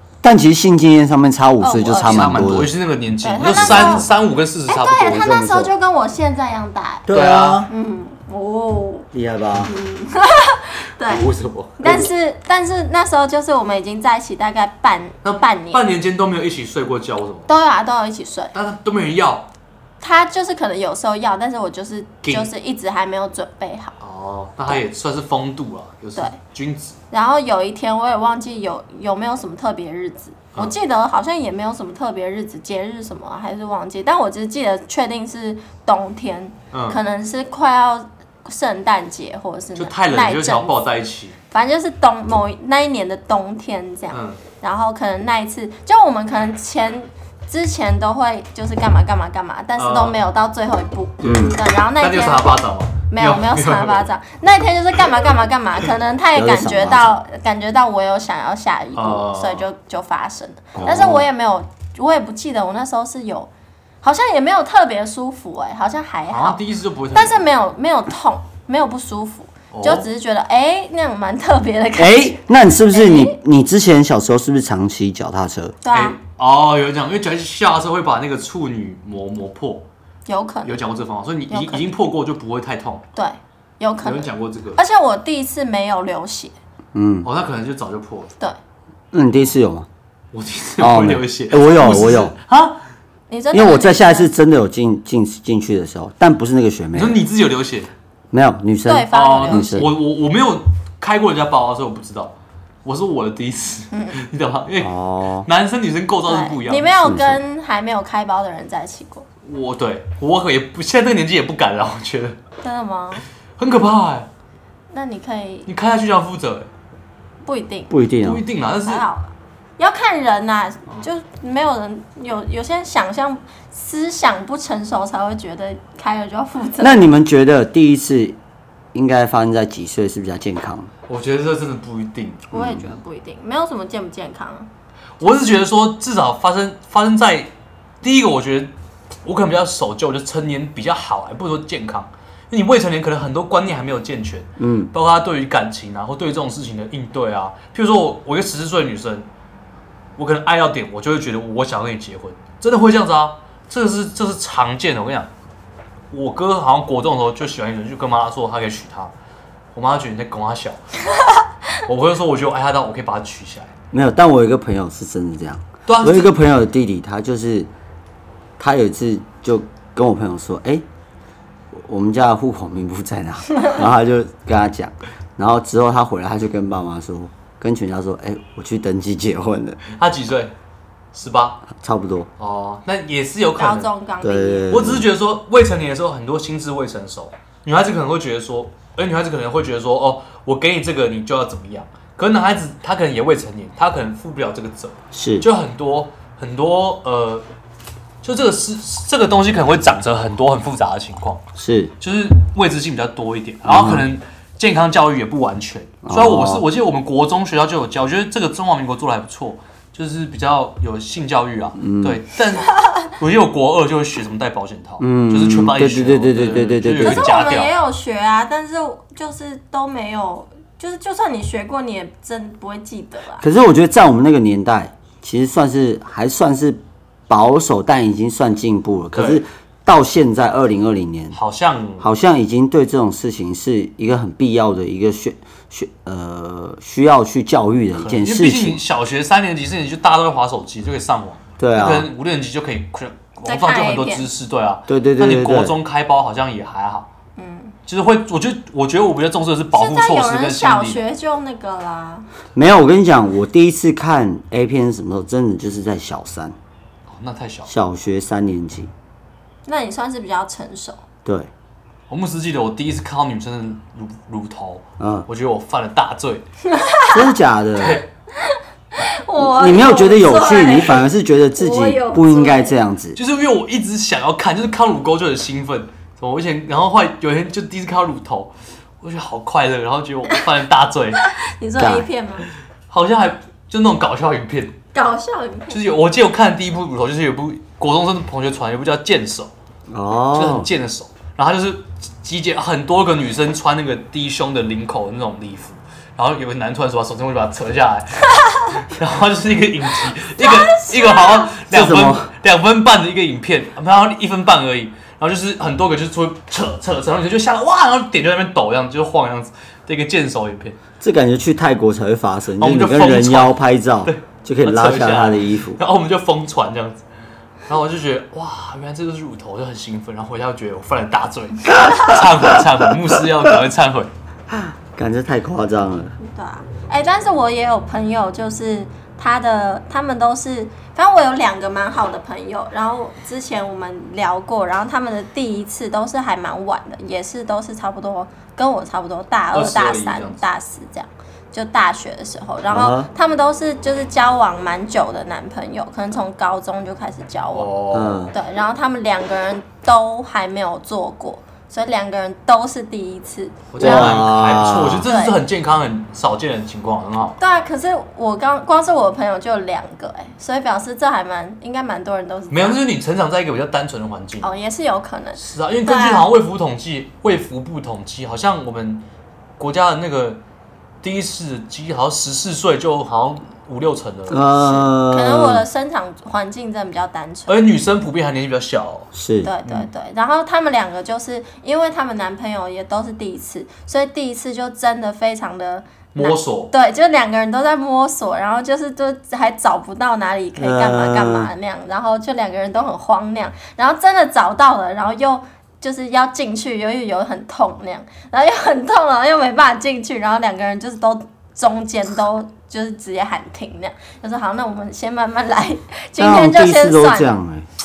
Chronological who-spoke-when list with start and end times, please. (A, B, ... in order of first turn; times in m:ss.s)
0:00.2-0:02.7 A
0:01.6-0:02.6 B
0:01.9-0:05.4 C
0:03.2-0:04.1 B
0:03.5-0:04.1 A
0:04.7-0:07.1 B
0:05.1-0:05.7 A
0:07.1-0:07.7 A
0:07.1-0:07.7 C
0:07.7-0:11.3 B
0:09.1-0:09.7 A
0:11.0-0:11.9 C
0:11.8-0:15.8 B
0:11.8-0:12.1 A
0:15.2-0:17.5 C
0:17.5-0:18.5 B
0:18.5-0:19.5 C
0:20.0-0:24.0 B
0:22.2-0:22.5 C
0:24.0-0:27.0 C
0:27.1-0:40.8 B
0:36.7-0:37.0 C
0:39.8-0:41.4 C
0:41.5-1:03.5 B
0:44.1-0:44.4 C
0:49.8-0:50.2 C
0:51.2-0:54.1 C
0:51.2-0:51.6 A
0:56.3-0:57.1 A
0:59.0-0:59.7 C
1:00.7-1:01.3 A
1:04.0-1:06.6 B
1:06.3-1:07.4 C
1:07.1-1:13.4 B
1:09.7-1:10.1 C
1:12.0-1:15.8 A
1:15.8-1:16.2 B
1:15.9-1:19.9 C
1:20.3-1:20.8 B
1:20.6-1:23.0 C
1:21.5-1:21.9 B
1:23.1-1:26.5 B
1:24.0-1:24.8 C
1:26.9-1:27.3 A
1:27.2-1:28.3 C
1:29.1-1:29.9 A
1:30.3-1:32.8 C
1:30.8-1:32.3 A
1:33.3-1:34.3 B
1:33.5-1:37.2 A
1:36.9-1:37.9 C
1:38.3-1:39.9 A
1:38.9-1:39.9 B
1:39.1-1:44.9 C
1:43.9-1:44.2 B
1:44.8-1:45.5 A
1:45.4-1:47.0 C
1:46.3-1:49.2 B
1:47.0-1:47.4 A
1:49.4-1:52.4 C
1:52.6-1:53.2 B
1:53.6-1:54.3 C
1:54.9-1:55.7 B
1:55.7-1:56.7 C
1:57.4-1:57.9 B
1:57.9-1:58.4 A
1:58.2-1:59.0 C
1:58.8-2:07.1 B
2:06.8-2:08.4 A
2:08.9-2:10.9 A
2:11.1-2:12.5 C
2:12.5-2:14.7 B
2:12.5-2:12.9 A
2:15.2-2:17.5 C
2:18.0-2:18.7 C
2:19.2-2:29.3 C
2:24.6-2:24.9 A
2:30.2-2:35.3 C
2:36.1-2:39.1 C
2:39.7-2:40.8 C
2:41.8-2:43.7 C
2:43.9-2:47.7 A
2:45.9-2:46.3 C
2:48.6-2:50.8 A
2:51.7-2:59.8 A
2:59.9-3:00.5 C
3:01.1-3:01.6 C
3:01.7-3:02.3 A
3:02.4-3:03.9 C
3:03.6-3:04.7 B
3:04.2-3:05.1 A
3:04.7-3:17.4 C
3:15.1-3:15.5 A
3:18.2-3:21.4 C
3:21.6-3:21.9 A
3:22.0-3:37.7 C
3:23.6-3:24.1 A
3:26.0-3:26.6 A
3:31.8-3:32.2 A
3:35.0-3:37.3 A
3:37.0-3:43.4 B
3:43.4-3:51.4 A
3:49.1-3:49.4 C
3:51.3-3:52.1 C
3:52.0-3:58.8 A
3:58.0-4:07.1 C
4:01.6-4:02.1 A
4:03.5-4:04.3 B
4:04.9-4:05.8 A
4:07.4-4:07.8 B
4:07.9-4:11.0 C
4:09.7-4:12.3 B
4:12.6-4:16.6 A
4:17.1-4:17.7 C
4:17.7-4:18.9 A
4:19.6-4:21.0 B
4:21.2-4:21.5 A
4:22.1-4:26.4 C
4:25.0-4:25.3 A
4:26.7-4:27.3 B
4:27.1-4:28.0 A
4:27.8-4:28.1 C
4:28.5-4:31.0 B
4:29.4-4:33.2 A
4:31.6-4:32.8 B
4:33.2-4:41.2 C
4:41.2-4:42.5 B
4:41.8-4:42.1 A
4:42.9-4:44.8 C
4:44.9-4:45.8 B
4:45.7-4:49.5 C
4:49.9-4:50.7 A
4:50.3-5:10.8 C
5:00.4-5:01.5 B
5:01.7-5:02.3 A
5:11.0-5:15.8 A
5:12.6-5:17.0 C
5:17.7-5:24.1 C
5:24.5-5:26.2 A
5:26.2-5:47.7 B
5:39.5-5:40.4 C
5:42.7-5:43.1 A
5:47.5-5:48.3 C
5:47.9-5:48.4 A
5:48.3-5:54.2 B
5:53.7-5:57.4 C
5:53.8-5:55.1 A
5:55.0-5:55.4 B
5:57.4-6:02.8 B
6:02.5-6:04.5 C
6:04.4-6:06.3 B
6:05.4-6:09.0 C
6:09.6-6:10.4 C
6:11.0-6:14.8 C
6:14.3-6:15.6 A
6:15.1-6:17.6 B
6:17.5-6:19.1 C
6:19.1-6:19.5 A
6:19.4-6:47.3 B
6:26.1-6:26.7 C
6:30.6-6:31.5 A
6:46.2-6:47.6 A